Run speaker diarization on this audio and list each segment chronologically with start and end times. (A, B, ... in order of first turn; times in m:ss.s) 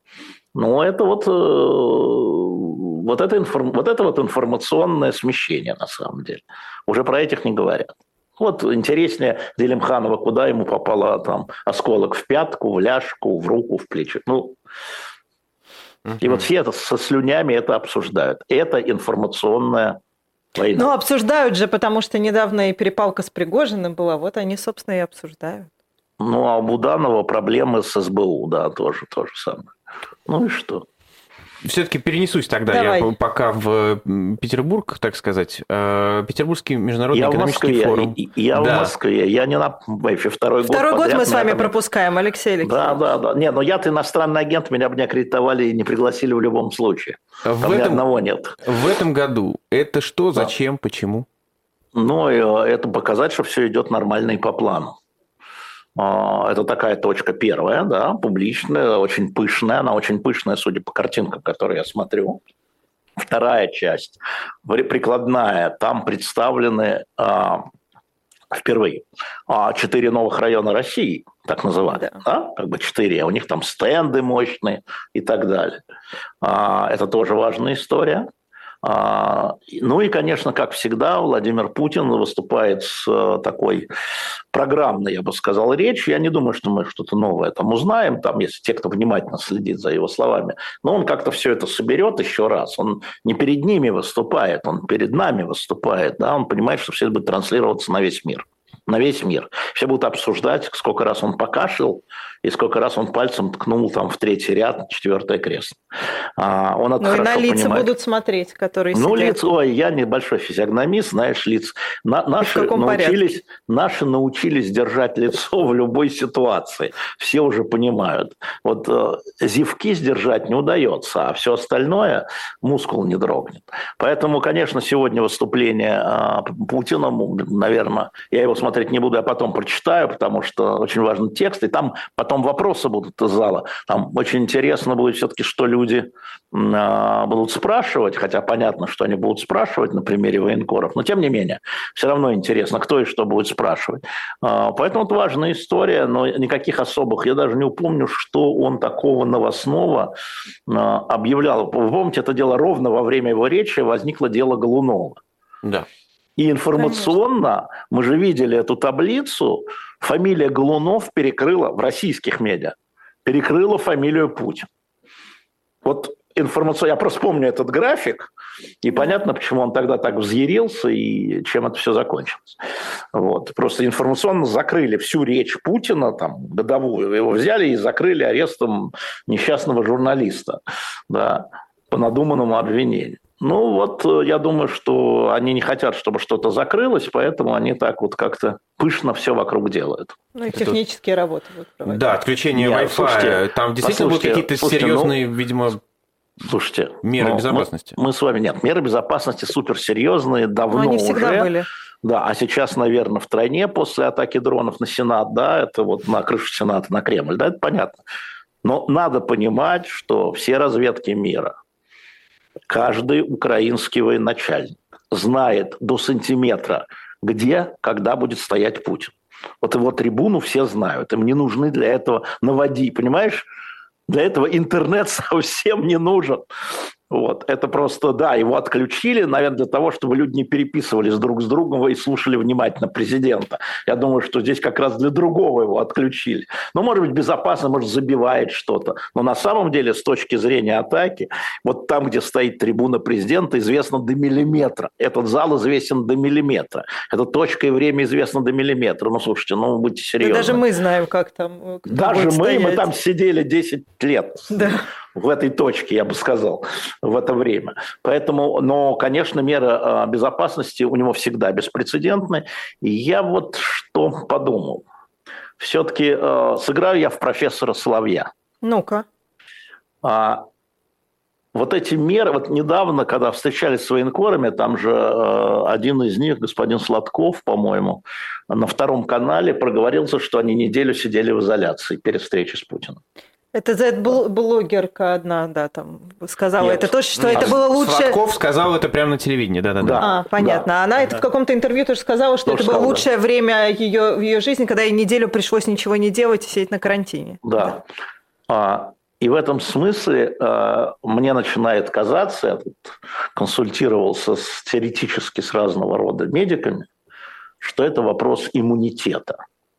0:00.6-0:14.6 A
0:16.2-0:20.0 A
0:20.6-0:20.9 A
0:20.8-0:25.7 B
0:26.2-0:29.7 A
0:30.3-0:30.9 A
0:31.6-0:38.9 C
0:32.7-0:33.1 B
0:37.1-0:41.7 A
0:40.7-0:43.0 B
0:42.6-0:48.6 A
0:47.4-0:48.1 C
0:48.6-0:51.3 C
0:52.0-0:55.0 A
0:56.0-1:02.4 A
1:03.2-1:07.7 A
1:08.5-1:15.8 A
1:16.4-1:18.3 A
1:18.8-1:23.9 A
1:24.5-1:45.8 A
1:46.4-1:47.9 A
1:47.0-1:49.4 B
1:48.9-2:30.1 A
1:52.4-1:53.2 B
2:30.7-2:35.2 A
2:36.4-2:44.7 A
2:36.8-2:37.1 B
2:45.8-2:48.3 A
2:48.8-2:52.6 A
2:53.1-3:10.2 A
3:10.4-3:12.1 B
3:10.5-3:10.8 C
3:11.9-3:15.8 C
3:12.6-3:15.2 A
3:16.4-3:21.5 A
3:17.0-3:18.0 C
3:20.7-3:21.7 B
3:22.0-3:28.0 A
3:28.6-3:31.6 A
3:32.7-3:43.5 A
3:44.1-3:46.5 A
3:47.1-4:10.6 A
4:10.2-4:12.9 B
4:11.9-4:24.8 A
4:14.5-4:14.8 B
4:25.6-4:28.3 A
4:28.6-4:29.0 B
4:30.0-4:30.5 A
4:31.5-4:43.0 A
4:43.5-4:48.2 B
4:46.6-4:47.5 A
4:47.2-4:50.1 C
4:49.8-4:51.2 A
4:50.0-4:57.4 B
4:52.4-4:53.0 A
4:57.4-4:57.8 A
4:58.5-5:06.9 A
5:07.6-5:09.4 A